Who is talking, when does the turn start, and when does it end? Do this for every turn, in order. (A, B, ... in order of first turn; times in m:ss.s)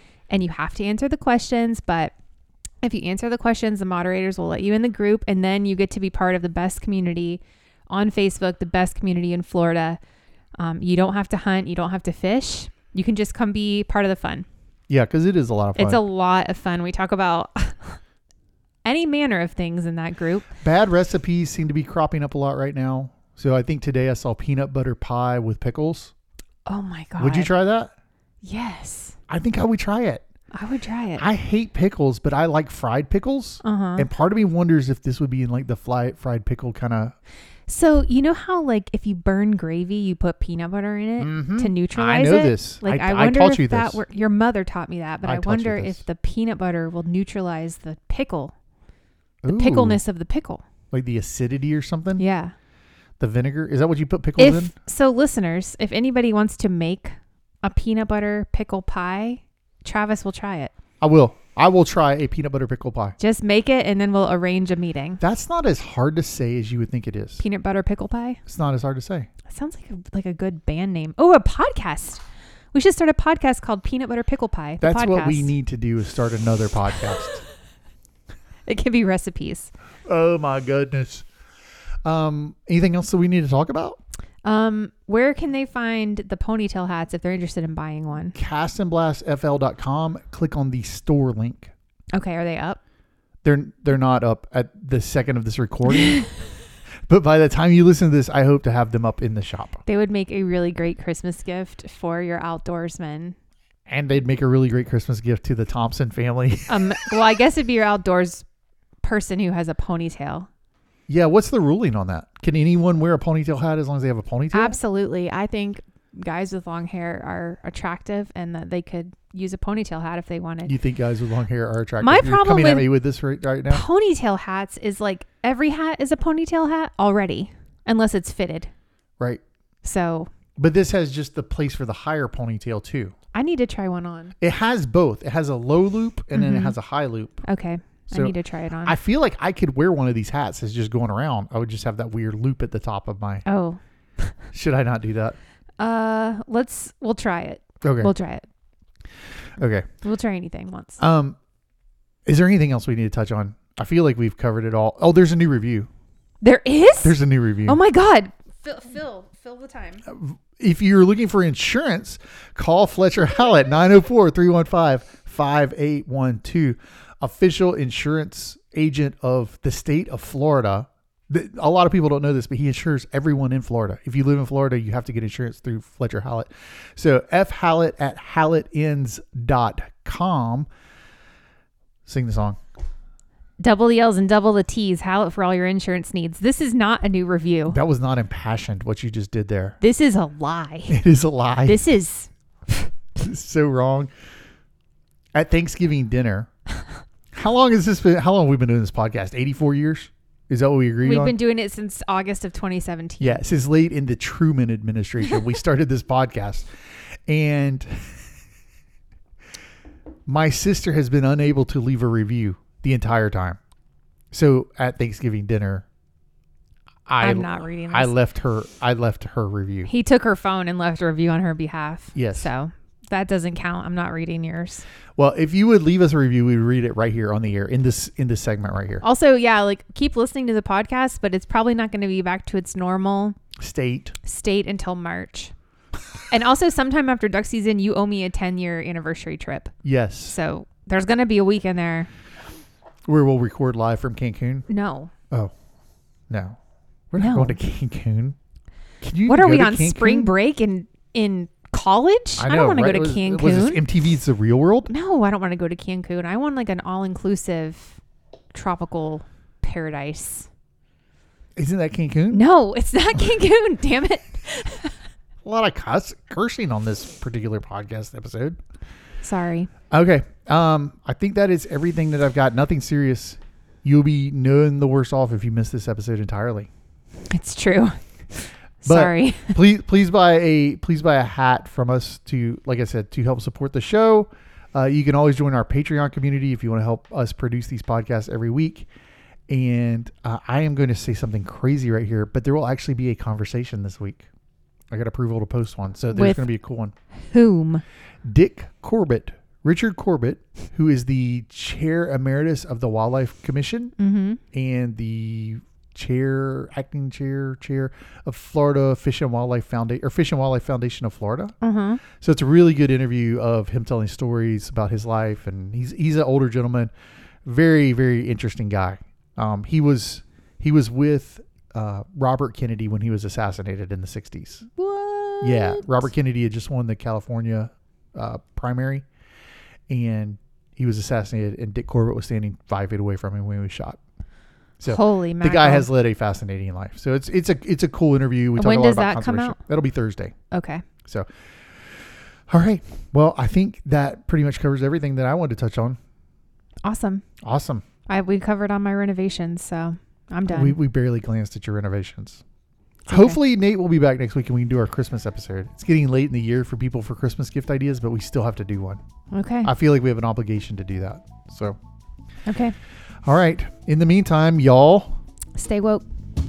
0:00.3-0:02.1 A
0:02.8-0:10.0 A
0:10.6-0:14.4 A
0:14.9-0:16.0 B
0:15.8-0:18.0 A
0:18.8-0:20.4 A
0:20.6-0:26.1 B
0:26.6-0:27.5 A
0:27.2-0:27.9 B
0:28.4-0:29.2 A
0:29.3-0:30.2 B
0:30.5-0:31.2 A
0:31.2-0:37.1 B
0:33.6-0:34.1 A
0:37.7-0:48.5 A
0:41.2-0:44.0 B
0:45.2-0:46.0 B
0:49.4-0:50.0 B
0:49.5-0:50.6 A
0:50.9-0:52.2 B
0:52.2-0:52.5 A
0:53.2-0:54.7 B
0:54.4-1:00.7 A
1:01.0-1:03.2 B
1:03.2-1:05.2 A
1:05.2-1:07.4 B
1:07.4-1:08.4 A
1:08.4-1:09.3 B
1:09.5-1:12.2 A
1:12.7-1:15.5 A
1:14.8-1:17.4 B
1:18.7-1:19.7 A
1:20.1-1:21.2 B
1:22.0-1:24.0 B
1:24.4-1:28.4 A
1:28.3-1:31.7 B
1:32.1-1:32.8 A
1:33.4-1:36.3 B
1:37.1-1:39.8 B
1:39.8-1:43.4 A
1:43.9-1:46.8 B
1:46.7-1:48.4 A
1:49.0-1:50.5 A
1:51.1-1:54.8 B
1:54.5-2:00.8 A
2:00.6-2:03.8 B
2:02.0-2:02.9 A
2:03.7-2:08.7 A
2:09.8-2:10.3 A
2:10.6-2:13.1 B
2:13.3-2:14.3 A
2:14.4-2:17.4 B
2:16.3-2:16.8 A
2:17.4-2:19.0 A
2:18.1-2:23.4 B
2:23.4-2:24.3 A
2:24.5-2:25.4 B
2:25.8-2:28.4 A
2:27.8-2:28.1 B
2:29.6-2:29.9 B
2:30.0-2:31.0 A
2:31.0-2:31.4 B
2:32.2-2:35.9 B
2:36.4-2:40.0 A
2:37.0-2:37.8 B
2:40.1-3:00.7 B
3:02.0-3:02.6 B
3:03.6-3:07.8 A
3:07.7-3:09.8 B
3:09.8-3:11.0 A
3:10.9-3:11.9 B
3:11.6-3:12.8 A
3:13.1-3:14.1 B
3:15.3-3:16.5 B
3:17.3-3:21.4 B
3:21.0-3:23.4 A
3:23.2-3:26.7 B
3:27.3-3:28.2 B
3:30.3-3:33.6 B
3:34.3-3:35.8 B
3:37.1-3:39.9 B
3:37.2-3:38.1 A
3:39.8-3:44.8 A
3:42.1-3:42.5 B
3:45.2-3:49.0 B
3:49.0-3:53.4 A
3:53.6-3:54.2 B
3:54.2-3:55.5 A
3:56.3-3:59.7 A
3:59.8-4:00.4 B
4:00.2-4:02.1 A
4:03.1-4:04.7 B
4:04.7-4:05.1 A
4:06.3-4:06.6 B
4:07.1-4:08.4 B
4:07.2-4:07.6 A
4:09.0-4:10.3 B
4:09.3-4:13.8 A
4:12.4-4:14.9 B
4:14.9-4:18.0 A
4:18.5-4:20.5 A
4:21.6-4:22.4 B
4:22.3-4:24.9 A
4:25.4-4:28.6 B
4:29.2-4:29.7 A
4:29.9-4:36.7 B
4:37.3-4:39.6 A
4:38.8-4:48.9 B
4:49.5-4:54.2 B
4:54.9-4:56.9 B
4:56.1-4:56.5 A
4:57.3-4:57.8 A
4:58.2-5:03.9 B
5:04.0-5:04.4 A
5:04.5-5:11.5 B
5:11.6-5:12.0 A
5:12.1-5:16.9 B
5:17.4-5:24.7 B
5:24.8-5:26.0 A
5:25.4-5:29.0 B
5:29.9-5:34.0 B
5:34.8-5:40.3 B
5:34.8-5:35.9 A
5:38.6-5:39.6 A
5:40.5-5:40.8 A
5:42.5-5:46.0 B
5:46.8-5:47.2 A
5:47.4-5:47.8 B
5:48.1-5:50.8 A
5:50.5-5:52.4 B
5:53.1-5:53.4 A
5:53.1-5:59.0 B
5:59.3-5:59.7 A
5:59.6-6:01.8 B
6:02.5-6:02.7 A
6:03.2-6:05.2 B
6:05.6-6:06.0 A